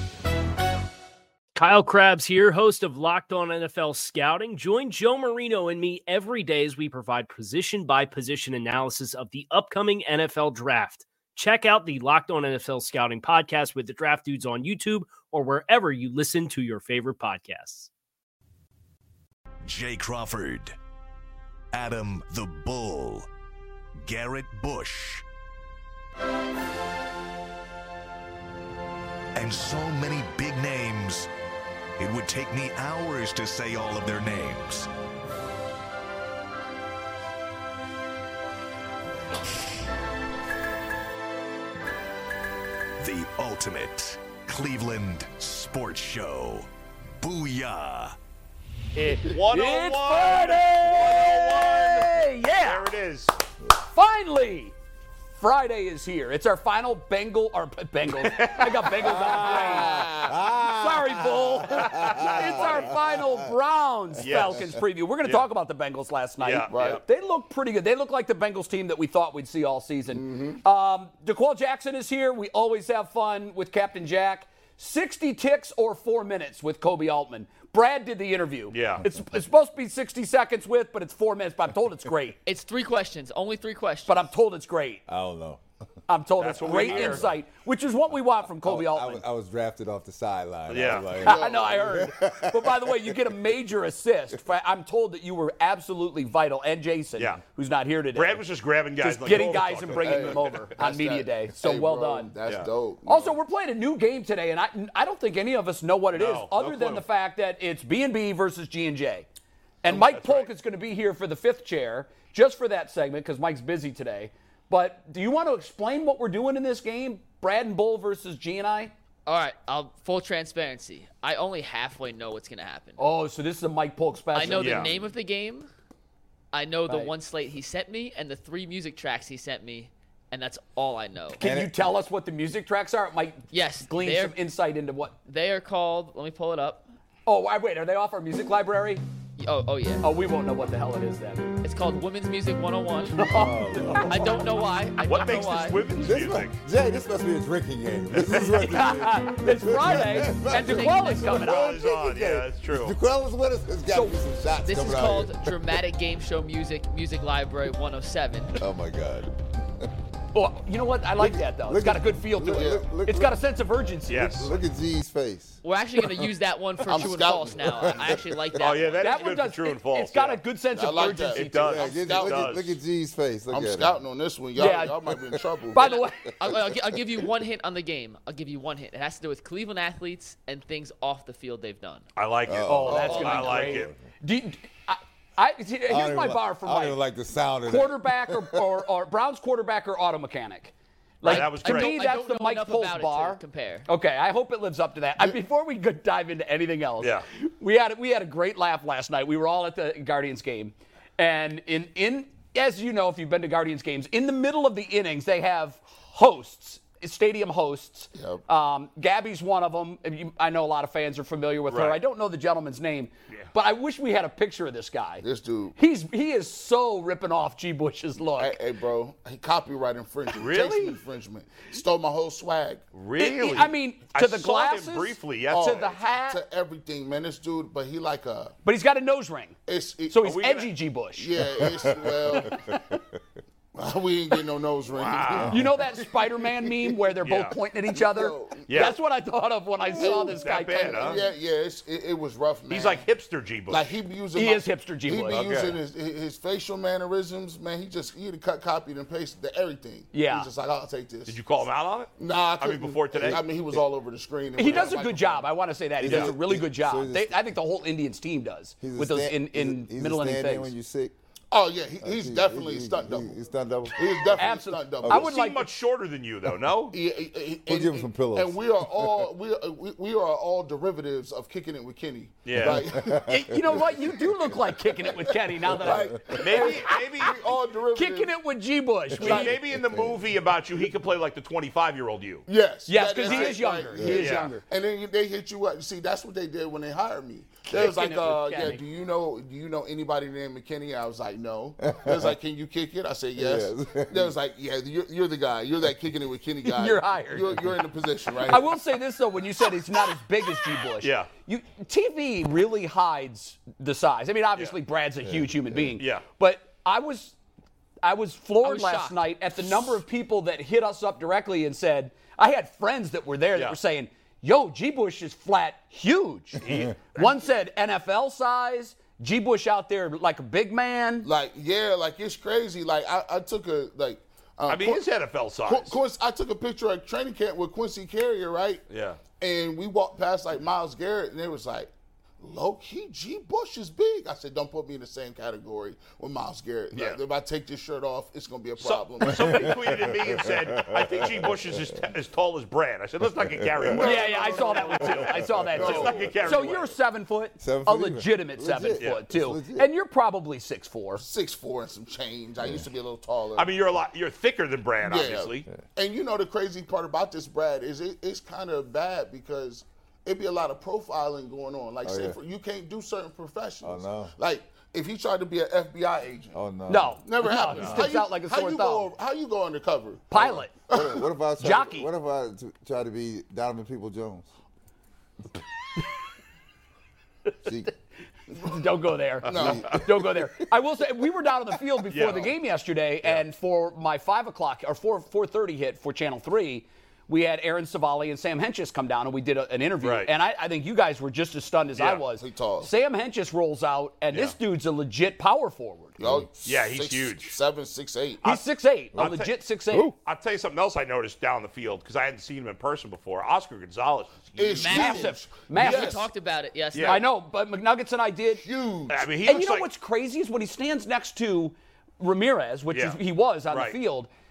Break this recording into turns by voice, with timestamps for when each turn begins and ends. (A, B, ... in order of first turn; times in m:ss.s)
0:01.5-0:17.9 A
0:19.6-0:20.8 B
0:21.7-0:23.3 B
0:24.0-0:25.2 B
0:29.3-0:31.3 B
0:32.0-0:34.9 B
0:43.0-0:46.7 B
0:47.2-0:48.1 B
0:49.0-0:52.8 C
0:49.2-0:53.3 D
0:53.8-0:54.7 C
0:55.4-1:22.4 C
0:58.2-0:59.8 D
0:59.0-1:03.5 E
1:01.9-1:02.8 D
1:04.2-1:04.8 E
1:04.2-1:05.4 D
1:06.4-1:07.0 D
1:06.7-1:07.0 F
1:10.1-1:10.6 F
1:18.7-1:19.0 D
1:22.4-1:24.3 G
1:24.0-1:25.0 C
1:25.1-1:25.6 E
1:26.1-1:29.2 C
1:26.4-1:27.3 D
1:26.7-1:27.3 E
1:28.6-1:33.3 E
1:30.7-1:31.2 D
1:31.2-1:38.4 C
1:31.2-1:32.1 F
1:38.1-1:40.6 D
1:39.0-1:42.3 C
1:39.9-1:43.4 F
1:43.0-1:49.2 C
1:46.1-1:47.0 D
1:49.8-1:58.9 C
1:49.8-1:50.5 D
1:59.2-2:03.0 G
2:03.0-2:05.0 C
2:04.3-2:05.7 G
2:04.5-2:04.9 D
2:06.5-2:11.4 G
2:06.9-2:07.1 C
2:11.4-2:11.7 E
2:11.4-2:15.1 C
2:13.5-2:14.4 G
2:15.2-2:16.9 G
2:17.2-2:19.0 C
2:19.4-2:20.0 G
2:20.0-2:21.6 C
2:21.6-2:23.4 G
2:23.1-2:24.2 C
2:23.2-2:24.3 E
2:23.9-2:25.9 G
2:25.0-2:26.6 D
2:26.0-2:35.5 E
2:28.2-2:28.4 D
2:28.5-2:31.8 C
2:30.6-2:31.4 G
2:31.3-2:33.0 D
2:33.9-2:34.2 C
2:34.6-2:38.5 G
2:38.6-2:39.9 E
2:40.3-2:44.5 C
2:41.2-2:43.4 E
2:42.5-2:42.8 F
2:44.1-2:44.5 D
2:44.2-2:45.6 E
2:45.6-2:49.2 G
2:46.8-2:48.2 F
2:47.7-2:48.6 E
2:48.6-2:50.4 D
2:49.0-2:52.0 C
2:50.7-2:52.5 F
2:51.3-2:52.7 D
2:51.6-2:54.0 E
2:53.5-2:56.0 F
2:54.6-2:55.0 C
2:55.1-2:55.4 E
2:55.7-2:56.2 C
2:56.4-3:02.0 G
3:02.2-3:03.9 D
3:02.4-3:04.0 E
3:02.7-3:07.0 C
3:02.9-3:03.8 G
3:05.9-3:08.6 E
3:07.6-3:35.2 C
3:11.2-3:11.9 D
3:11.2-3:13.9 G
3:28.1-3:28.4 F
3:31.7-3:32.0 D
3:35.2-3:35.8 F
3:35.8-3:38.6 C
3:38.4-3:42.8 F
3:40.3-3:41.0 D
3:42.9-3:45.9 D
3:43.2-3:46.4 C
3:45.5-3:48.5 F
3:48.6-3:49.6 C
3:49.7-3:50.2 F
3:50.1-3:51.3 C
3:50.2-3:50.7 D
3:51.2-3:52.6 F
3:51.6-3:53.2 E
3:52.3-3:53.0 C
3:53.7-3:56.9 F
3:54.9-3:55.6 D
3:55.5-4:01.2 C
3:57.2-3:57.6 D
3:57.9-3:59.0 F
3:58.7-3:59.0 D
3:59.9-4:03.0 F
4:00.0-4:01.2 D
4:02.7-4:04.0 D
4:03.7-4:11.4 F
4:04.4-4:05.4 C
4:05.3-4:05.8 D
4:10.1-4:10.5 C
4:11.2-4:13.4 D
4:12.2-4:15.5 F
4:14.6-4:20.7 C
4:16.0-4:17.4 E
4:18.8-4:21.1 E
4:21.5-4:23.3 F
4:22.0-4:24.4 E
4:23.9-4:25.3 F
4:24.4-4:25.6 C
4:25.1-4:27.0 D
4:26.9-4:38.3 F
4:27.6-4:29.3 E
4:32.4-4:32.9 D
4:32.6-4:33.9 E
4:33.2-4:37.3 C
4:35.7-4:36.5 E
4:36.4-4:37.4 D
4:37.9-4:39.6 C
4:39.2-4:42.4 D
4:39.2-4:39.5 F
4:39.8-4:40.2 E
4:42.5-4:58.7 F
4:42.9-4:44.6 C
4:43.3-4:44.5 D
4:43.9-4:44.2 E
4:47.7-4:48.8 C
4:51.8-4:52.3 E
4:53.4-4:54.3 E
4:56.6-4:57.5 C
4:58.5-5:07.3 C
5:01.0-5:01.3 D
5:05.2-5:05.9 E
5:06.0-5:06.2 D
5:08.0-5:21.3 C
5:08.6-5:09.2 G
5:16.6-5:17.5 D
5:21.2-5:25.0 F
5:24.7-5:26.0 D
5:25.6-5:28.8 F
5:28.9-5:29.2 D
5:29.4-5:39.8 F
5:36.9-5:37.2 D
5:38.8-5:46.9 D
5:39.2-5:42.0 E
5:43.4-5:43.9 E
5:43.9-5:46.4 F
5:44.0-5:51.2 C
5:45.2-5:46.3 E
5:47.6-5:49.9 E
5:51.2-5:53.7 F
5:53.5-5:55.7 D
5:55.0-6:06.6 F
6:02.0-6:02.4 E
6:03.8-6:04.3 E
6:06.5-6:07.2 E
6:06.9-6:09.1 C
6:07.2-6:11.2 F
6:10.3-6:10.7 C
6:10.9-6:14.5 E
6:11.6-6:12.1 C
6:17.6-6:17.9 E
6:18.5-6:36.2 C
6:19.5-6:20.0 F
6:19.5-6:20.2 E
6:22.1-6:22.5 D
6:30.0-6:30.3 D
6:32.0-6:32.2 D
6:32.3-6:32.9 F
6:36.2-6:38.4 F
6:36.2-6:36.5 E
6:36.6-6:37.6 D
6:38.4-6:40.1 C
6:39.2-6:39.5 D
6:39.9-6:40.2 E
6:40.2-6:45.1 D
6:44.6-6:46.2 F
6:44.8-6:47.2 G
6:44.8-6:46.2 C
6:46.9-6:47.2 D
6:47.0-6:48.6 C
6:48.6-6:49.2 F
6:49.1-6:49.8 D
6:49.4-6:54.3 C
6:52.9-6:53.2 D
6:53.7-6:54.0 D